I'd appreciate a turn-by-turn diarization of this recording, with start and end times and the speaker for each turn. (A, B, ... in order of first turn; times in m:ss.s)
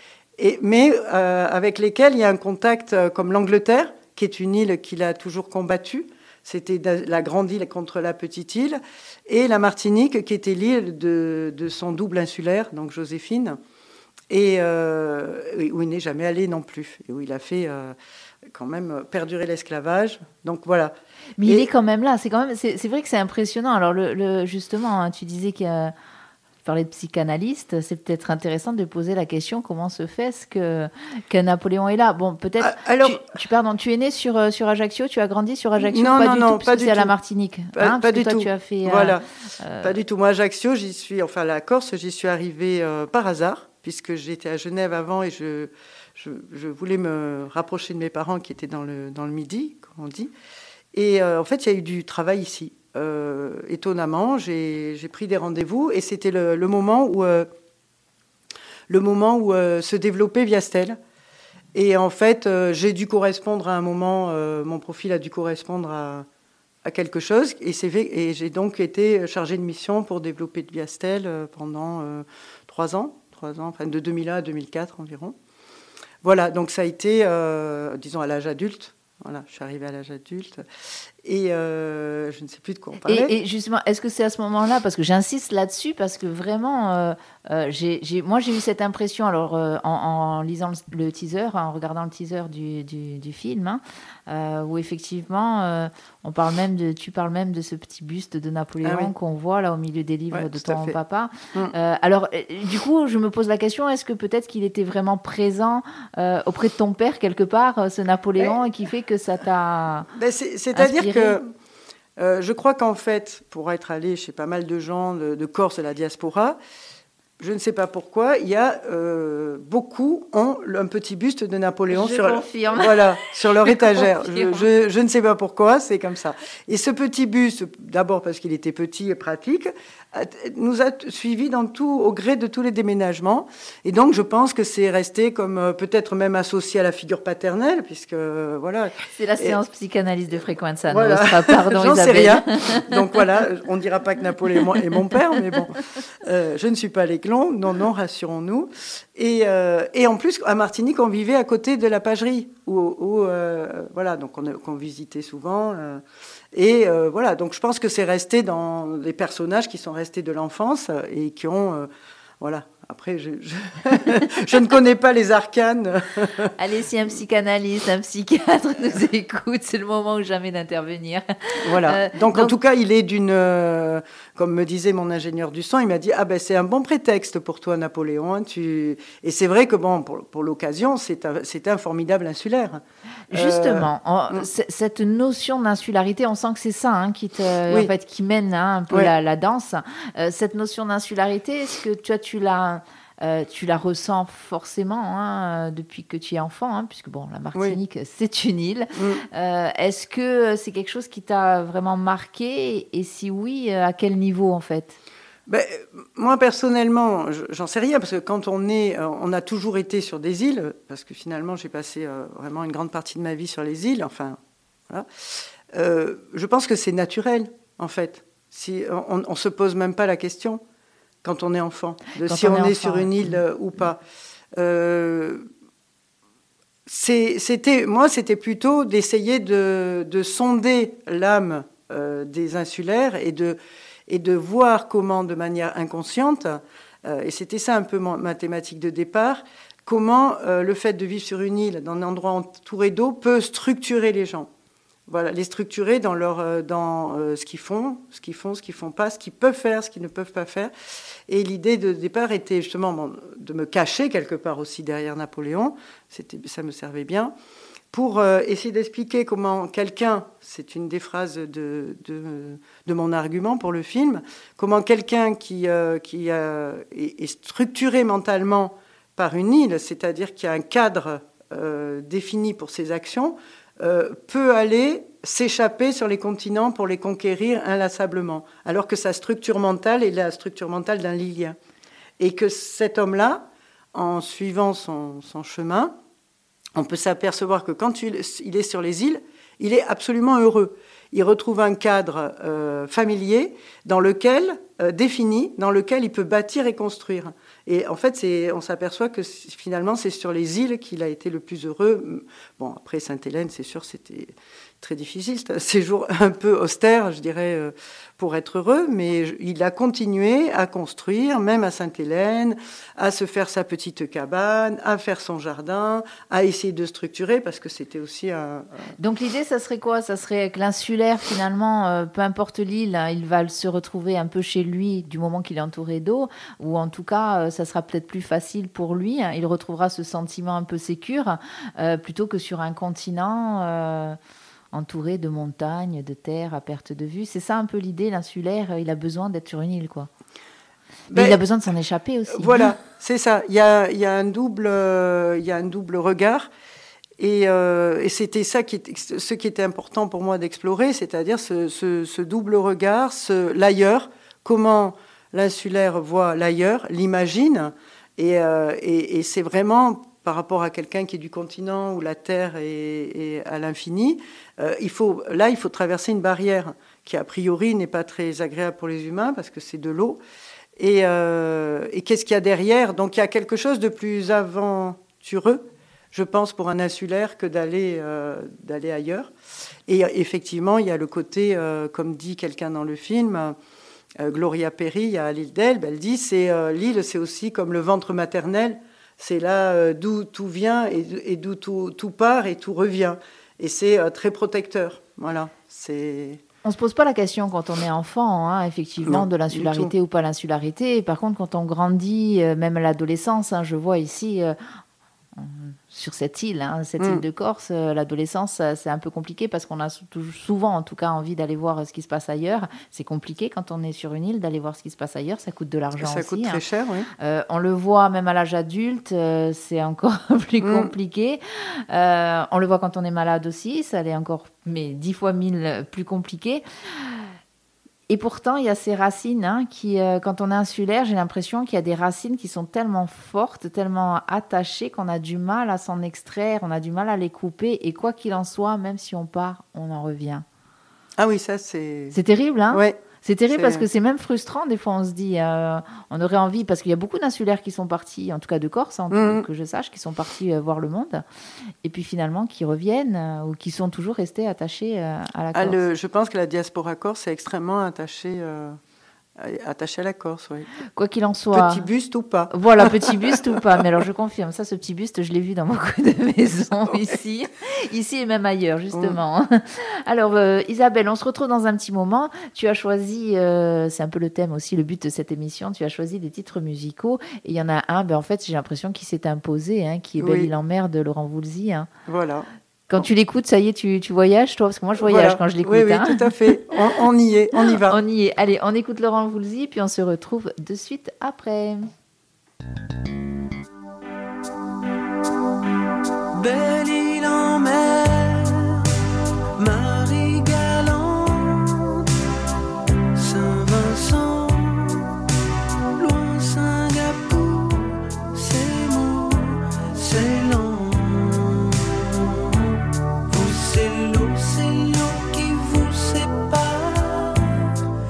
0:00.4-0:13.6 A
0:14.3-0:17.9 A
0:18.5-0:21.7 A
0:21.4-0:25.9 B
0:26.6-0:40.0 B
0:32.6-0:33.2 A
0:35.8-0:37.1 A
0:37.7-0:39.2 A
0:39.8-0:50.3 A
0:50.9-0:57.5 A
0:58.9-1:01.0 A
1:01.7-1:06.2 A
1:06.8-1:15.4 A
1:16.2-1:20.6 A
1:21.2-1:23.3 A
1:23.0-1:50.1 B
1:38.8-1:39.1 A
1:40.3-1:41.0 A
1:50.1-1:51.4 A
1:50.7-1:51.4 B
1:52.2-1:56.6 A
1:57.4-2:19.6 A
2:01.9-2:04.7 B
2:19.1-2:23.0 B
2:20.9-2:41.9 A
2:42.4-2:46.5 A
2:46.6-2:52.5 B
2:51.6-3:04.5 A
3:03.3-3:25.0 B
3:18.9-3:19.2 A
3:25.5-3:40.6 A
3:41.2-3:44.0 A
3:42.2-3:43.4 B
3:44.5-3:45.5 A
3:46.8-4:04.5 A
4:05.1-4:10.7 A
4:11.3-4:17.3 A
4:17.9-4:41.6 A
4:42.2-4:46.0 A
4:46.7-5:18.9 A
5:19.0-5:34.2 B
5:34.7-5:40.1 B
5:41.1-5:41.4 A
5:41.1-5:42.7 B
5:42.3-5:46.5 A
5:47.2-6:10.2 A
6:10.8-6:19.3 A
6:19.9-6:23.6 A
6:24.2-6:36.4 A
6:36.6-6:44.5 B
6:39.0-6:39.9 A
6:45.4-6:56.6 B
6:47.0-6:47.2 A
6:56.0-6:57.1 A
6:57.2-7:07.2 B
7:00.6-7:00.9 A
7:08.1-7:20.4 B
7:21.2-7:22.2 A
7:22.1-7:31.2 B
7:22.7-7:23.0 A
7:23.5-7:23.9 A
7:29.1-7:29.4 A
7:31.8-7:35.8 B
7:35.5-7:38.8 A
7:39.4-7:40.7 A
7:41.0-7:41.9 B
7:41.5-7:43.8 A
7:42.5-8:01.9 B
7:48.9-7:49.2 A
8:00.2-8:00.5 A
8:02.0-8:02.5 A
8:02.9-8:06.5 B
8:05.0-8:08.0 A
8:07.6-8:11.9 B
8:16.3-8:18.9 C
8:19.6-8:22.1 C
8:23.1-8:25.2 C
8:26.0-8:37.7 C